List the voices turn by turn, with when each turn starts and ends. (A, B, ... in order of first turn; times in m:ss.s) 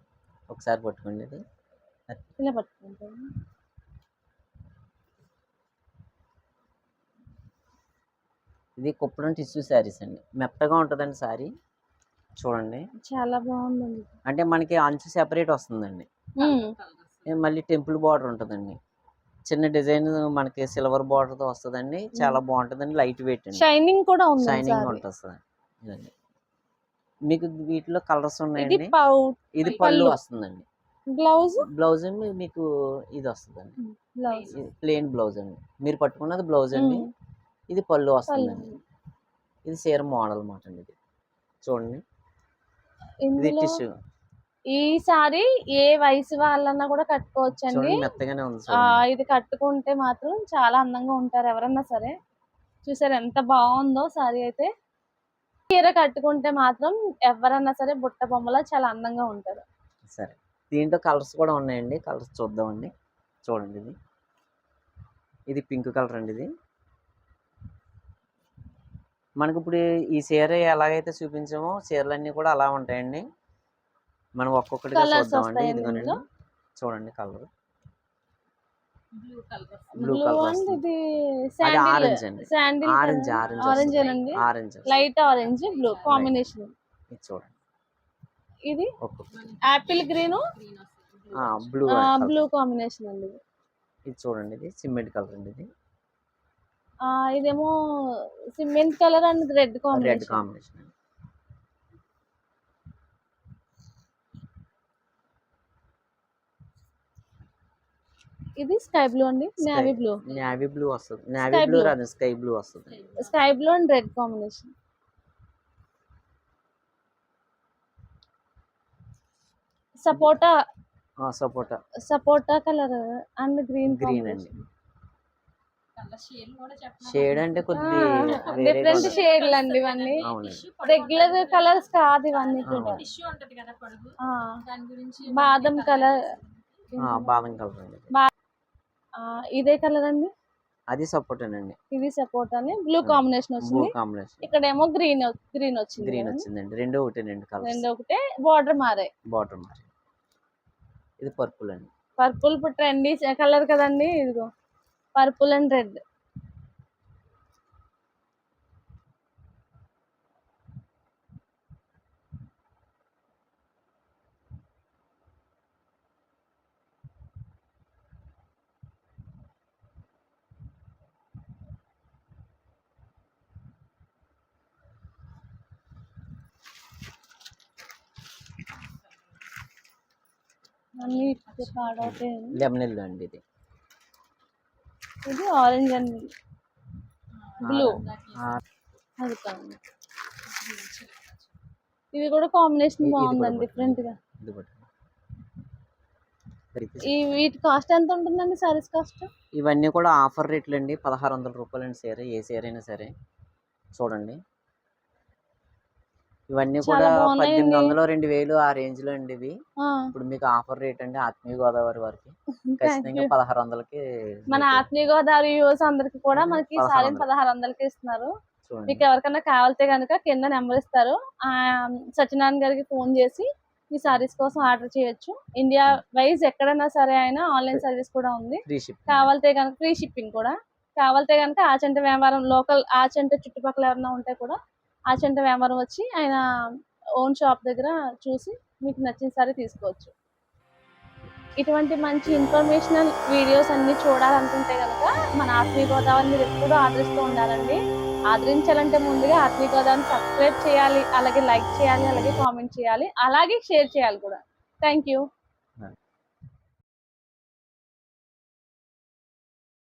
0:00.5-0:01.4 A
0:02.4-0:03.3 B
0:08.8-0:11.5 A
0:12.4-0:12.8 A
0:13.0-0:14.1 B
0:14.2-0:16.1 A
0:16.4-0:16.7 B
0:16.4-0:17.4 C
0:17.2-0:18.8 A
0:19.4-0:23.6 A
0:22.2-0:22.4 B
0:23.5-0:25.0 B
0:24.4-0:26.1 A
0:27.3-0:28.9 A
0:28.6-0:30.2 B
0:29.5-0:30.6 A
0:31.1-0:31.7 B
0:31.6-0:33.8 A
0:33.8-0:34.5 B
0:34.2-0:34.7 C
0:34.5-0:37.1 A
0:36.7-0:37.1 B
0:37.7-0:38.7 A
0:38.3-0:38.8 B
0:39.6-0:40.9 A
0:41.6-0:42.0 A
0:43.2-0:43.7 B
0:43.4-0:43.9 A
0:44.7-0:48.0 B
0:47.6-0:49.0 A
0:48.7-0:52.1 B
0:52.8-0:54.7 B
0:55.7-0:59.6 B
1:00.1-1:02.9 A
1:03.4-1:04.0 A
1:05.5-1:06.5 A
1:09.4-1:13.2 A
1:14.4-1:16.2 A
1:14.9-1:16.2 B
1:16.8-1:17.5 A
1:19.1-1:20.1 C
1:19.9-1:21.0 B
1:20.0-1:20.8 A
1:21.6-1:26.7 B
1:21.6-1:24.9 A
1:23.4-1:24.3 C
1:24.9-1:26.3 C
1:26.1-1:26.3 A
1:27.1-1:27.5 A
1:29.0-1:29.3 A
1:29.3-1:31.8 C
1:29.6-1:30.4 B
1:31.3-1:32.4 A
1:31.8-1:33.4 B
1:34.0-1:35.7 A
1:37.0-1:37.7 B
1:38.6-1:40.4 B
1:39.9-1:40.9 A
1:48.6-1:50.2 B
1:49.6-1:53.0 A
1:51.4-1:51.9 B
1:52.8-1:53.4 C
1:53.2-1:54.7 B
2:00.0-2:00.5 B
2:01.2-2:01.8 A
2:02.0-2:04.6 B
2:03.8-2:04.5 A
2:06.0-2:17.0 C
2:07.0-2:09.2 A
2:07.7-2:10.2 B
2:10.2-2:10.7 A
2:10.8-2:13.0 B
2:12.6-2:13.0 A
2:14.2-2:14.6 B
2:15.2-2:16.2 B
2:17.0-2:17.3 B
2:17.0-2:18.1 A
2:19.2-2:20.3 B
2:20.9-2:21.8 A
2:21.9-2:23.9 B
2:23.0-2:24.5 A
2:24.4-2:26.5 B
2:26.0-2:27.8 A
2:27.6-2:29.1 B
2:29.3-2:29.9 A
2:31.2-2:31.9 A
2:32.2-2:34.5 B
2:35.2-2:36.0 B
3:01.0-3:02.6 B
3:01.0-3:02.0 C
3:02.0-3:03.4 A
3:05.2-3:06.3 B
3:07.5-3:08.6 C
3:07.6-3:08.0 B
3:07.6-3:08.6 A
3:09.2-3:09.8 B
3:10.4-3:11.5 C
3:12.1-3:14.2 B
3:13.0-3:14.9 A
3:16.7-3:17.3 A
3:17.0-3:19.3 B
3:19.5-3:23.1 A
3:23.9-3:24.4 A
3:26.5-3:29.6 A
3:26.8-3:28.0 B
3:29.8-3:30.1 B
3:30.1-3:34.8 A
3:32.6-3:33.3 B
3:34.5-3:38.3 B
3:36.3-3:37.3 A
3:38.6-3:39.0 A
3:38.9-3:54.6 B
3:48.6-3:49.3 A
3:55.1-3:56.4 B
3:57.2-4:00.1 B
4:01.6-4:07.8 B
4:08.3-4:15.2 B